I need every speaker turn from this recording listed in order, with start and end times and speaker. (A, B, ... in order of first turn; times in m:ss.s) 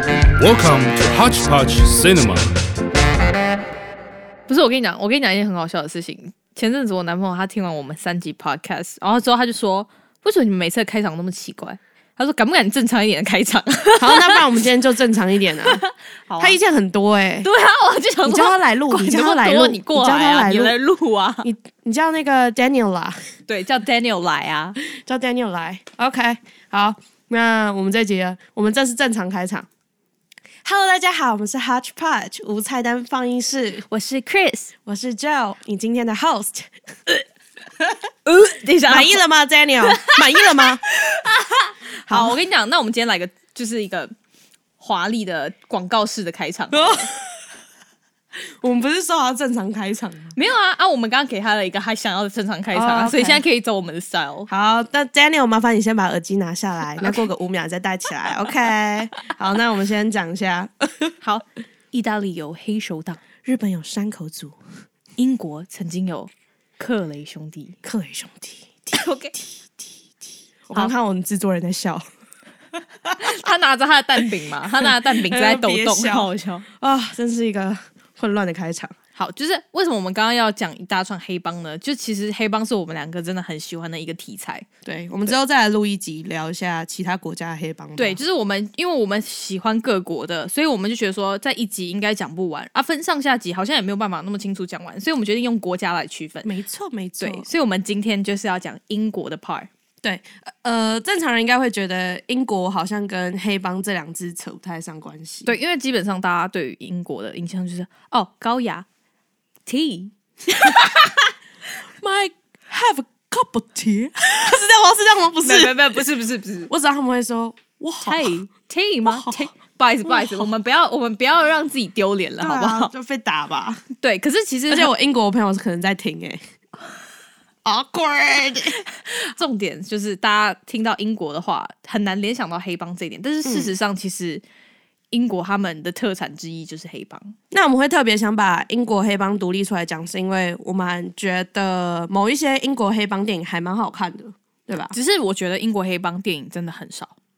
0:00.4-0:02.5 A
0:04.5-0:14.4 B
0:14.0-0:15.8 C
0:15.6-0:16.6 B
0:16.4-0:17.5 C
0:17.4-0:21.5 B
0:18.2-0:20.7 C
0:21.4-0:23.2 C
0:23.5-0:24.8 B
0:24.9-0:29.7 C
0:30.6-0:33.8 C
0:33.8-0:34.7 B
0:34.8-0:36.7 C
0:38.2-0:39.2 B
0:38.9-0:40.8 C
0:39.8-0:44.1 B
0:42.1-0:42.4 C
0:44.8-0:47.1 B
0:46.7-0:47.3 C
0:48.6-0:50.3 C
0:50.3-0:54.5 B
0:52.7-0:53.4 C
0:54.5-1:01.1 C
1:01.2-1:03.2 B
1:03.4-1:04.6 C
1:05.2-1:07.8 B
1:07.8-1:09.8 C
1:08.9-1:09.3 B
1:10.7-1:12.0 C
1:13.2-1:16.6 B
1:14.8-1:18.9 C
1:19.1-1:24.6 B
1:24.8-1:28.2 C
1:28.0-1:36.5 B
1:36.4-1:37.5 C
1:37.2-1:39.7 B
1:40.0-1:45.5 C
1:45.4-1:48.8 B
1:49.7-1:51.2 B
1:52.0-1:56.0 C
1:55.4-1:56.7 B
1:56.7-1:58.4 C
1:58.0-2:02.9 B
1:59.0-1:59.4 C
2:00.1-2:00.5 C
2:02.4-2:03.8 C
2:04.0-2:04.9 B
2:04.7-2:06.4 C
2:07.6-2:08.8 C
2:08.9-2:14.4 B
2:13.4-2:13.7 C
2:15.1-2:17.4 B
2:17.5-2:24.9 C
2:24.9-2:27.1 B